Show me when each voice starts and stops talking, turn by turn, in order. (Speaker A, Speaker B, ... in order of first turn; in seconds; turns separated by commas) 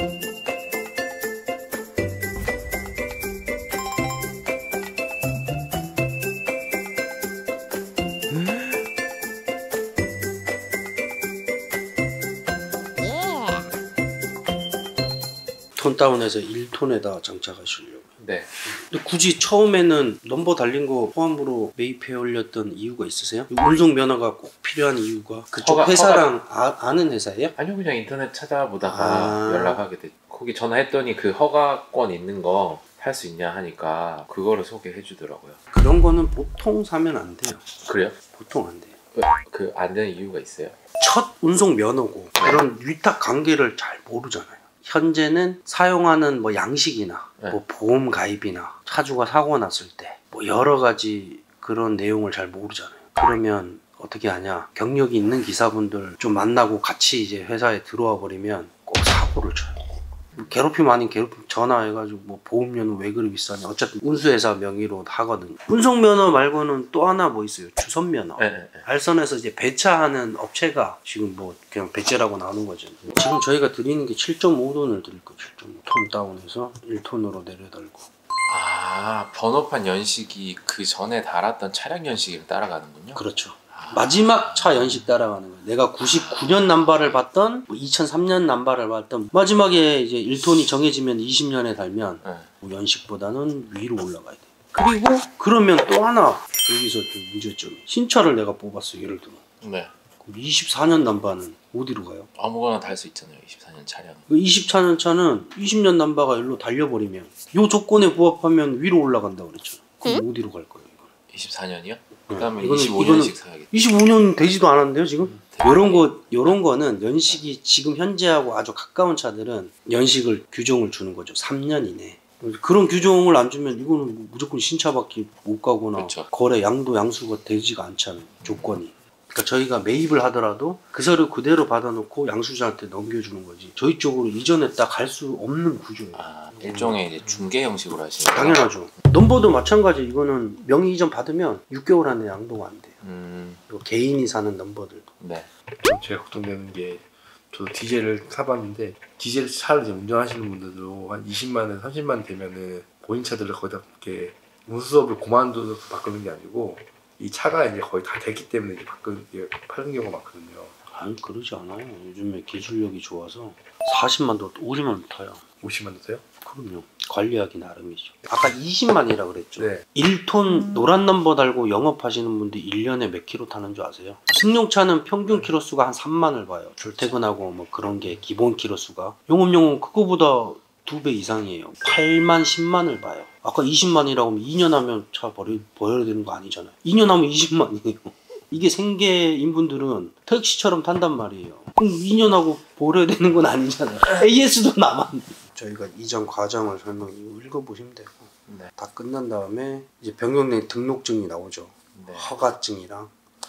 Speaker A: 15.8-18.1, Speaker B: 18.2-18.5, Speaker A: 18.7-27.5, Speaker B: 25.6-26.3, Speaker B: 27.5-35.6, Speaker A: 28.9-29.8, Speaker A: 35.7-37.7, Speaker B: 37.8-38.1, Speaker A: 38.3-39.0, Speaker B: 39.1-40.8, Speaker A: 41.0-78.1, Speaker B: 42.4-42.6, Speaker B: 68.4-68.9, Speaker B: 78.5-83.2, Speaker A: 83.1-99.4, Speaker B: 83.7-85.1, Speaker B: 86.0-86.9, Speaker B: 92.2-92.5, Speaker B: 99.6-99.9, Speaker A: 100.2-102.3, Speaker B: 102.4-104.2, Speaker A: 104.3-111.1, Speaker B: 111.3-113.7, Speaker A: 112.3-137.2, Speaker B: 115.3-116.6, Speaker B: 126.0-126.3, Speaker B: 128.4-128.8, Speaker B: 136.1-138.7, Speaker A: 138.3-143.0, Speaker B: 143.0-143.6, Speaker A: 143.7-145.1, Speaker B: 145.2-145.5, Speaker C: 145.8-160.7, Speaker A: 160.9-165.4, Speaker C: 165.6-166.2, Speaker A: 166.4-203.1, Speaker C: 169.6-169.8, Speaker C: 176.8-177.2, Speaker B: 198.5-198.7, Speaker B: 201.9-202.3